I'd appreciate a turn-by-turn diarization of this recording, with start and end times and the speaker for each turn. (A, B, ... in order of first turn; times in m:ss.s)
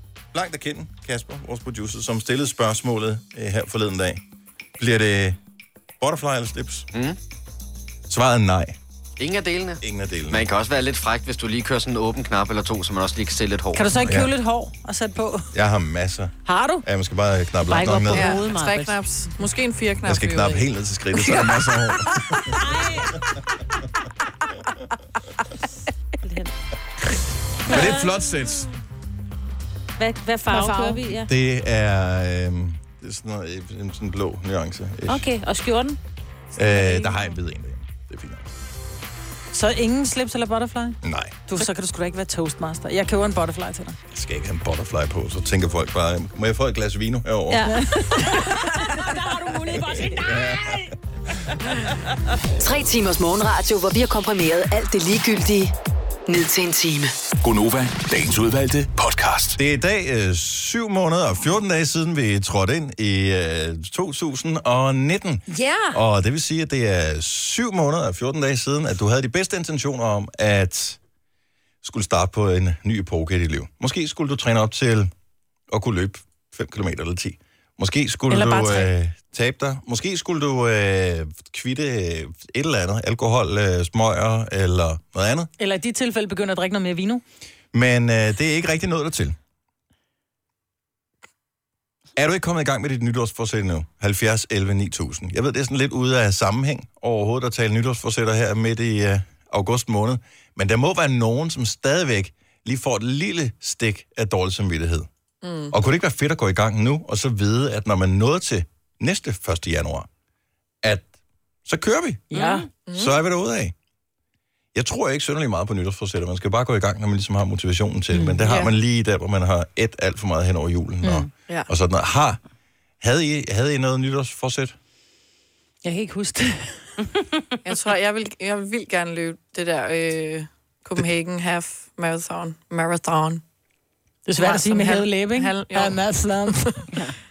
0:00.3-0:04.2 A
0:04.8-0:05.4 A
0:06.0-0:06.9 A
0:08.1-0:08.8 A
0:09.2-0:14.0 B
0:09.8-0:10.5 A
0:13.7-0:15.5 C
0:14.0-0:14.3 A
0:15.5-0:18.4 A
0:16.4-0:16.8 C
0:17.7-0:19.0 D
0:18.1-0:20.7 E
0:20.0-0:22.6 A
0:21.2-0:21.5 E
0:22.6-0:23.1 D
0:26.2-0:26.5 D
0:27.7-0:28.7 A
0:27.7-0:28.1 D
0:30.0-0:31.3 D
0:30.5-0:31.1 C
0:31.3-0:35.3 A
0:35.1-0:36.0 D
0:36.6-0:38.5 A
0:36.6-0:37.2 D
0:39.5-0:44.0 C
0:41.0-0:41.4 A
0:44.1-0:47.7 A
0:47.5-0:50.9 D
0:47.7-0:48.3 C
0:49.7-0:50.9 A
0:52.6-0:55.7 F
0:56.3-0:57.1 F
0:57.4-0:59.6 G
0:59.6-1:11.0 A
1:05.5-1:06.0 C
1:11.8-1:15.1 A
1:15.7-1:25.5 A
1:18.3-1:18.9 C
1:25.6-1:27.2 C
1:27.7-1:29.4 A
1:32.2-1:45.1 A
1:45.4-1:45.7 E
1:45.7-1:50.1 A
1:50.8-1:51.1 A
1:51.6-1:52.3 A
1:52.3-1:52.7 C
1:52.3-1:52.7 D
1:52.8-1:53.2 E
1:52.9-1:53.7 A
1:54.7-2:02.4 A
1:58.2-1:58.7 C
2:01.0-2:01.3 C
2:03.0-2:04.8 A
2:05.8-2:06.8 C
2:07.6-2:13.4 E
2:14.3-2:16.9 C
2:14.4-2:16.1 E